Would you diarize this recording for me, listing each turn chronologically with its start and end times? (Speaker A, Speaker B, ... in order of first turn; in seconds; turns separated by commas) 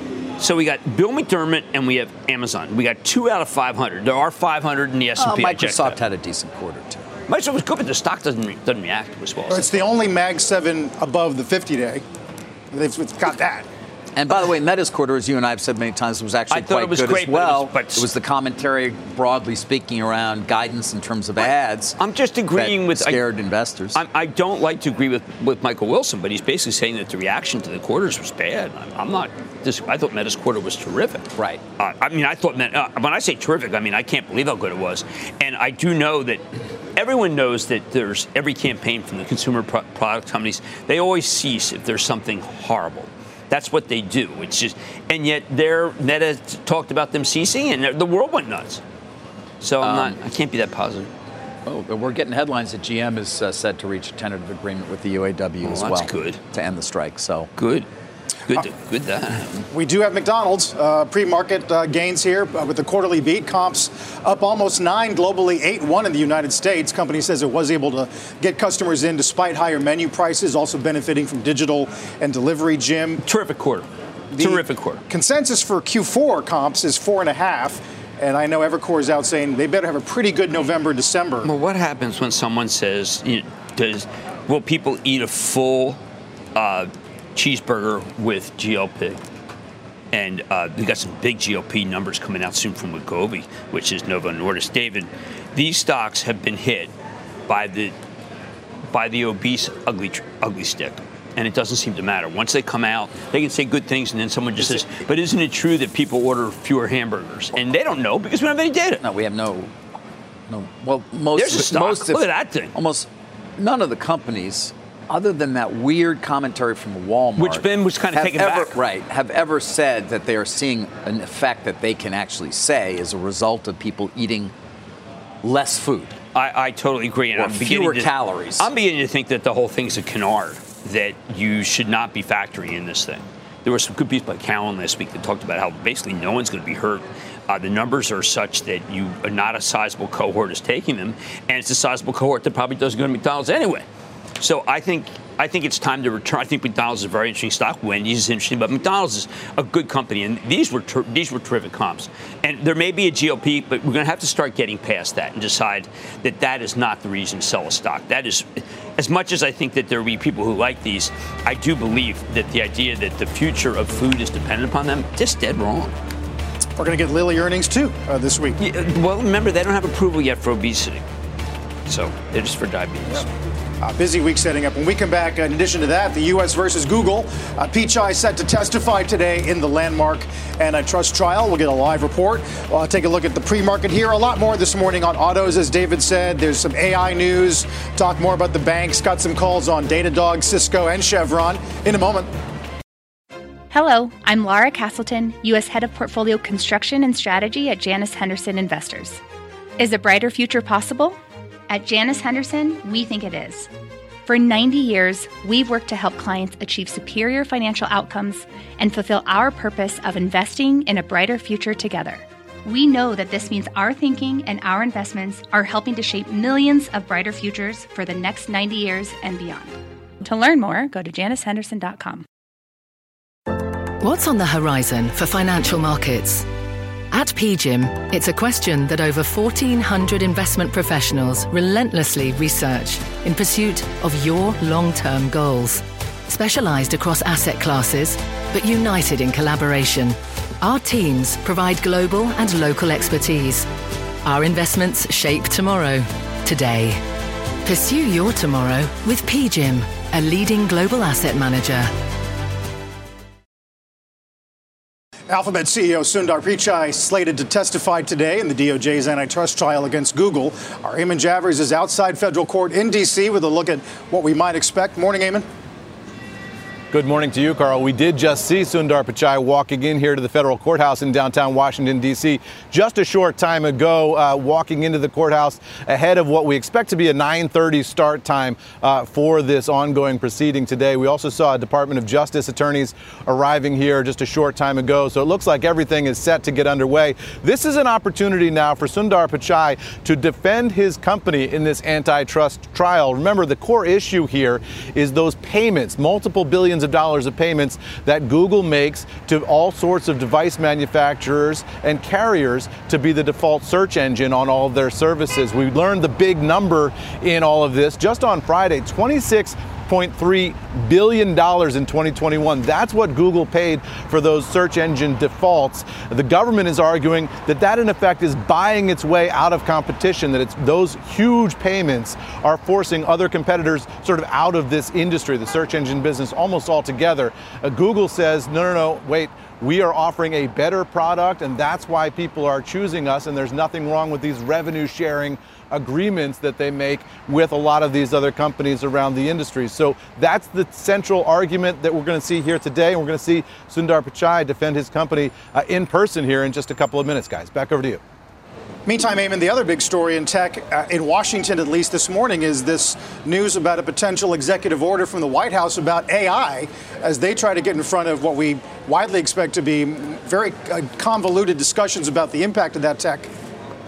Speaker A: 0.4-6.0, Speaker B: 5.2-7.0, Speaker A: 7.3-9.9, Speaker C: 9.5-12.0, Speaker C: 12.7-13.7, Speaker B: 14.2-22.0, Speaker A: 16.5-18.1, Speaker A: 21.4-23.2, Speaker B: 22.5-24.0, Speaker A: 23.9-36.4, Speaker A: 37.0-48.8, Speaker A: 49.6-51.1, Speaker B: 49.8-50.1, Speaker B: 51.6-57.5, Speaker A: 55.6-56.4, Speaker A: 57.6-57.9, Speaker A: 58.5-59.5, Speaker C: 59.7-73.2, Speaker A: 73.2-73.8, Speaker C: 74.3-81.5, Speaker A: 74.4-75.0, Speaker A: 81.4-86.0, Speaker A: 86.5-89.2, Speaker A: 90.1-96.9, Speaker A: 97.5-97.9, Speaker A: 98.9-109.0, Speaker B: 109.0-109.7, Speaker B: 110.5-124.5, Speaker A: 111.3-112.7, Speaker A: 117.4-118.8, Speaker B: 125.4-126.1, Speaker A: 126.3-143.8, Speaker B: 127.3-128.7, Speaker A: 144.4-165.9, Speaker C: 166.8-168.6, Speaker A: 168.6-171.0, Speaker A: 171.9-173.3, Speaker C: 173.8-192.3, Speaker D: 193.7-199.2, Speaker D: 199.8-201.2, Speaker D: 201.7-203.7, Speaker D: 204.2-222.2, Speaker E: 224.0-226.5, Speaker E: 227.1-243.7, Speaker E: 244.2-247.0, Speaker E: 247.6-251.9, Speaker C: 255.3-265.4, Speaker F: 266.9-348.0, Speaker C: 348.9-363.3